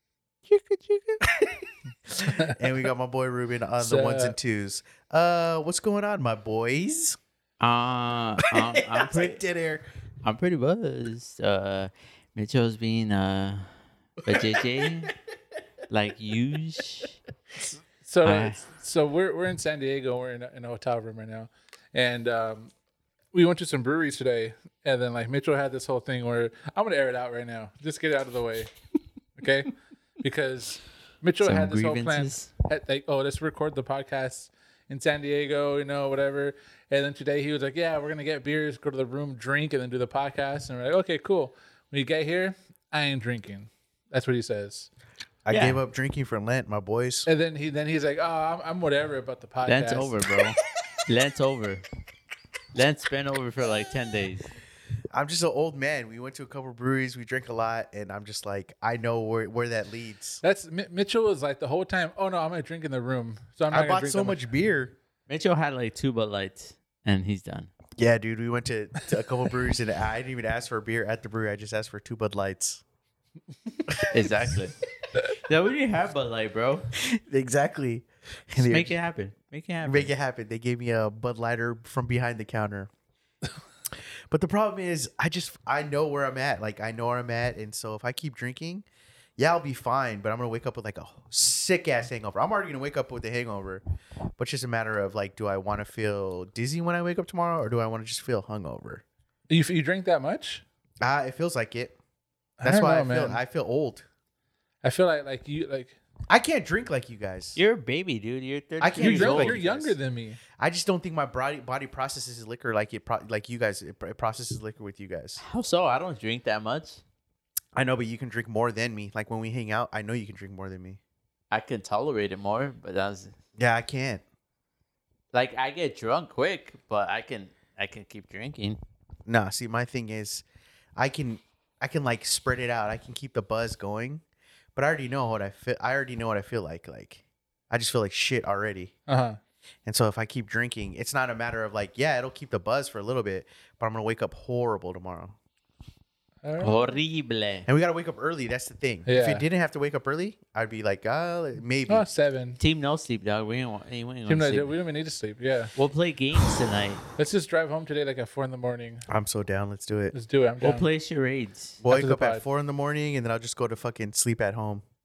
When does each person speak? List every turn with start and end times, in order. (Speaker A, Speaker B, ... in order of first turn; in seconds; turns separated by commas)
Speaker A: 0.5-1.2, Speaker B: 1.2-7.2, Speaker C: 2.3-2.6, Speaker C: 3.8-4.3, Speaker A: 7.6-9.4, Speaker B: 8.5-9.8, Speaker A: 10.2-15.1, Speaker B: 14.3-14.9, Speaker A: 15.9-17.2, Speaker C: 17.6-22.7, Speaker A: 18.2-18.6, Speaker C: 23.3-28.7, Speaker C: 29.4-44.9, Speaker A: 31.4-32.5, Speaker B: 45.5-47.3, Speaker A: 45.5-45.8, Speaker C: 47.2-50.2, Speaker A: 49.6-51.8, Speaker A: 52.7-54.5, Speaker B: 55.1-60.4, Speaker C: 60.4-64.4, Speaker B: 63.7-65.0, Speaker A: 65.3-67.7, Speaker B: 68.0-72.8, Speaker B: 73.9-74.3, Speaker A: 74.1-74.8, Speaker A: 75.3-76.9, Speaker B: 77.0-78.9, Speaker A: 78.6-80.1, Speaker B: 79.8-82.9, Speaker B: 84.3-88.8, Speaker B: 89.4-93.8, Speaker B: 94.4-99.0, Speaker C: 99.5-100.6, Speaker B: 101.0-102.0, Speaker C: 102.6-103.4, Speaker B: 102.6-104.0, Speaker C: 104.8-106.0, Speaker B: 106.3-107.6, Speaker A: 107.5-109.9, Speaker B: 108.8-109.6, Speaker C: 109.0-110.4, Speaker B: 110.6-115.4, Speaker A: 115.4-117.0, Speaker B: 117.7-121.0, Speaker A: 121.5-123.3, Speaker B: 123.6-124.2, Speaker A: 125.3-128.8, Speaker B: 129.2-130.4, Speaker B: 130.9-134.2, Speaker B: 134.7-138.9, Speaker C: 139.1-139.4, Speaker B: 139.8-145.3, Speaker C: 146.4-147.0, Speaker A: 146.6-147.7, Speaker B: 147.7-152.1, Speaker C: 149.1-149.4, Speaker C: 151.9-152.6, Speaker A: 152.6-154.7, Speaker C: 154.3-155.7, Speaker A: 155.8-157.0, Speaker C: 157.2-159.0, Speaker B: 159.1-160.1, Speaker C: 160.1-160.9, Speaker A: 160.6-161.8, Speaker B: 161.8-164.8, Speaker C: 161.9-162.4